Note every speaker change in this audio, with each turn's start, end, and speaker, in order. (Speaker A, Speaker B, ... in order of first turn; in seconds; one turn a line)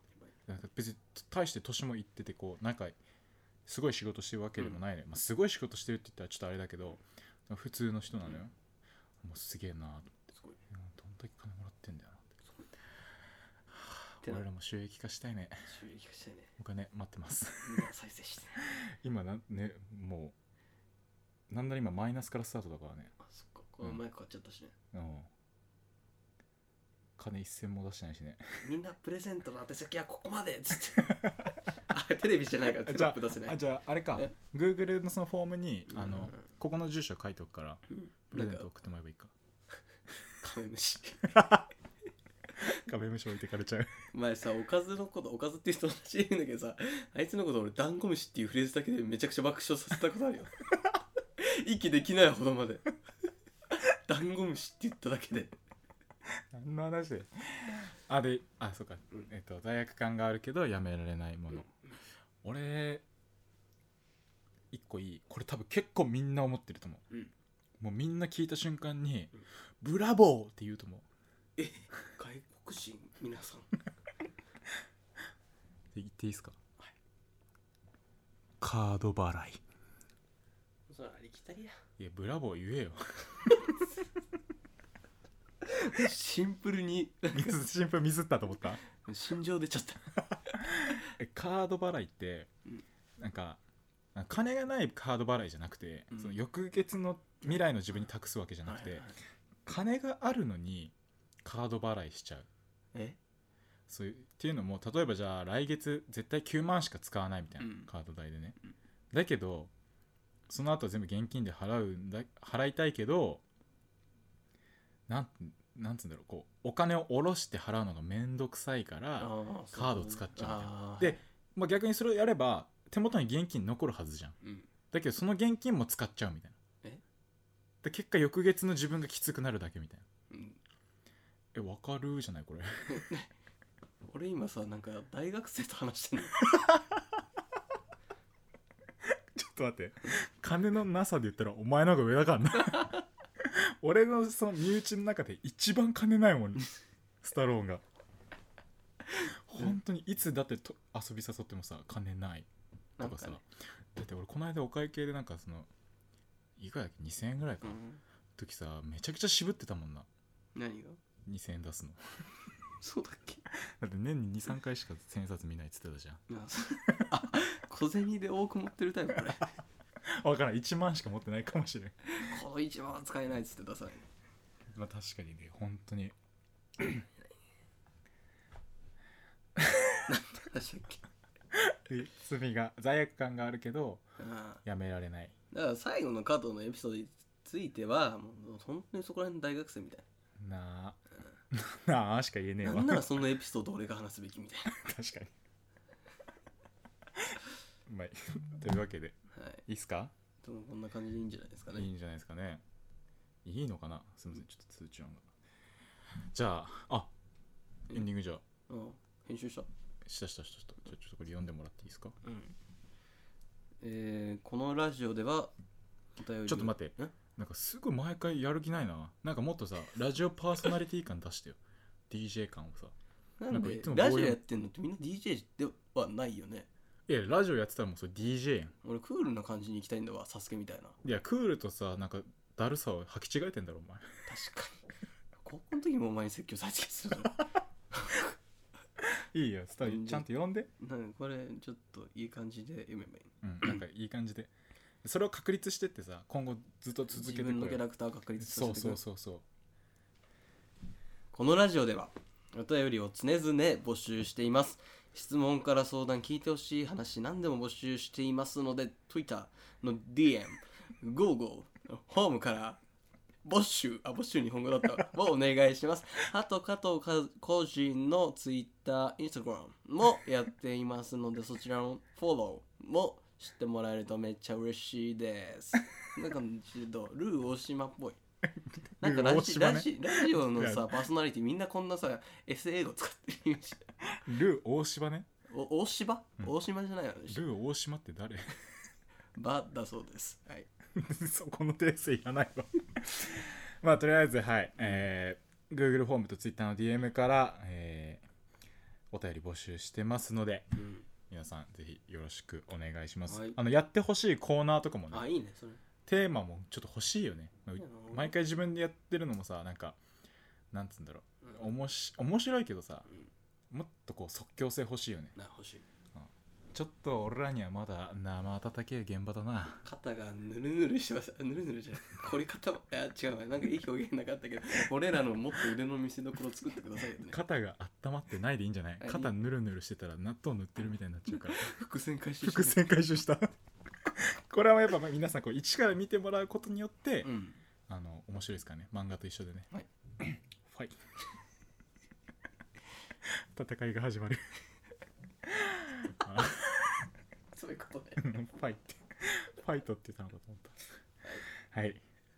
Speaker A: 0.5-3.0
Speaker A: 3.6-8.5
Speaker A: 9.2-12.3
Speaker A: 13.7-15.7
Speaker B: 15.7-16.5
Speaker A: 16.6-17.9
Speaker B: 17.6-18.6
Speaker A: 18.6-20.4
Speaker A: 21.5-23.1
Speaker B: 23.2-24.7
Speaker A: 24.9-25.3
Speaker A: 27.2-28.4
Speaker B: 28.6-33.6
Speaker A: 31.1-31.5
Speaker A: 32.8-39.3
Speaker B: 35.9-36.4
Speaker B: 37.9-38.7
Speaker B: 40.4-41.3
Speaker A: 41.2-41.7
Speaker A: 42.6-44.0
Speaker B: 44.1-50.5
Speaker B: 51.4-52.9
Speaker B: 53.8-55.6
Speaker A: 56.5-61.7
Speaker A: 62.4-63.0
Speaker A: 64.7-67.0
Speaker A: 67.8-71.0
Speaker B: 71.6-73.7
Speaker A: 75.9-76.6
Speaker A: 78.6-79.6
Speaker B: 80.9-81.8
Speaker A: 82.0-83.8
Speaker B: 85.6-87.6
Speaker A: 87.3-88.8
Speaker B: 88.9-90.2
Speaker A: 90.6-92.5
Speaker A: 93.2-93.6
Speaker A: 94.1-99.1
Speaker B: 96.1-96.4
Speaker B: 98.7-99.2
Speaker A: 99.7-102.5
Speaker A: 103.9-108.6
Speaker B: 107.6-107.9
Speaker A: 109.1-109.7
Speaker A: 110.5-113.4
Speaker A: 115.1-124.4
Speaker B: 119.2-121.2
Speaker B: 124.4-124.7
Speaker A: 124.9-126.5
Speaker A: 127.8-130.0
Speaker B: 130.3-130.6
Speaker A: 131.5-133.1
Speaker B: 132.9-133.3
Speaker B: 134.0-136.4
Speaker A: 136.4-137.0
Speaker A: 139.0-147.8
Speaker A: 149.2-152.5
Speaker B: 153.0-153.4
Speaker A: 153.0-155.7
Speaker A: 156.6-157.8
Speaker B: 157.6-158.0
Speaker A: 158.3-160.1
Speaker B: 160.5-161.0
Speaker A: 161.2-162.0
Speaker B: 162.8-163.4
Speaker A: 163.5-166.2
Speaker B: 166.3-169.5
Speaker A: 170.0-172.1
Speaker B: 172.1-174.1
Speaker A: 174.7-176.1
Speaker A: 176.8-177.1
Speaker B: 180.1-181.0
Speaker A: 181.5-184.1
Speaker B: 184.2-184.6
Speaker A: 184.6-185.3
Speaker B: 185.5-190.0
Speaker A: 190.4-191.0
Speaker A: 191.5-193.3
Speaker B: 192.6-194.7
Speaker A: 194.7-195.3
Speaker A: 197.2-200.1
Speaker B: 199.3-199.6
Speaker B: 200.4-201.9
Speaker A: 201.7-202.6
Speaker A: 203.4-205.3
Speaker A: 206.2-207.1
Speaker A: 207.9-208.4
Speaker B: 208.7-209.7
Speaker A: 210.0-212.2
Speaker B: 212.2-212.5
Speaker B: 213.8-215.5
Speaker B: 216.2-217.1
Speaker A: 216.4-222.9
Speaker B: 223.4-226.7
Speaker A: 223.5-224.4
Speaker A: 227.1-228.7
Speaker B: 228.8-231.0
Speaker A: 231.0-234.1
Speaker B: 234.3-234.8
Speaker B: 235.4-238.3
Speaker A: 239.3-240.7
Speaker B: 239.8-240.2
Speaker B: 240.8-243.8
Speaker A: 243.4-244.5
Speaker A: 245.0-247.8
Speaker B: 247.1-249.0
Speaker A: 248.4-249.4
Speaker B: 251.3-262.8
Speaker B: 263.4-278.2
Speaker A: 278.4-281.0
Speaker B: 279.0-283.9
Speaker A: 284.2-285.3
Speaker B: 285.5-287.4
Speaker A: 287.3-288.5
Speaker B: 289.4-290.7
Speaker A: 290.9-298.2
Speaker A: 299.1-305.2
Speaker B: 300.8-301.1
Speaker B: 303.3-303.6
Speaker B: 305.1-305.8
Speaker A: 306.1-310.0
Speaker B: 307.8-308.3
Speaker A: 310.7-313.1
Speaker B: 311.4-311.7
Speaker A: 313.7-315.4
Speaker B: 315.4-315.8
Speaker A: 316.1-319.8
Speaker B: 319.8-327.4
Speaker A: 327.2-331.7
Speaker B: 329.0-329.3
Speaker B: 331.3-332.8
Speaker A: 332.4-337.3
Speaker B: 337.2-337.6
Speaker A: 337.9-339.7
Speaker A: 340.2-340.9
Speaker A: 343.2-344.4
Speaker A: 345.4-347.1
Speaker B: 347.5-348.3
Speaker A: 348.2-350.8
Speaker A: 351.7-352.0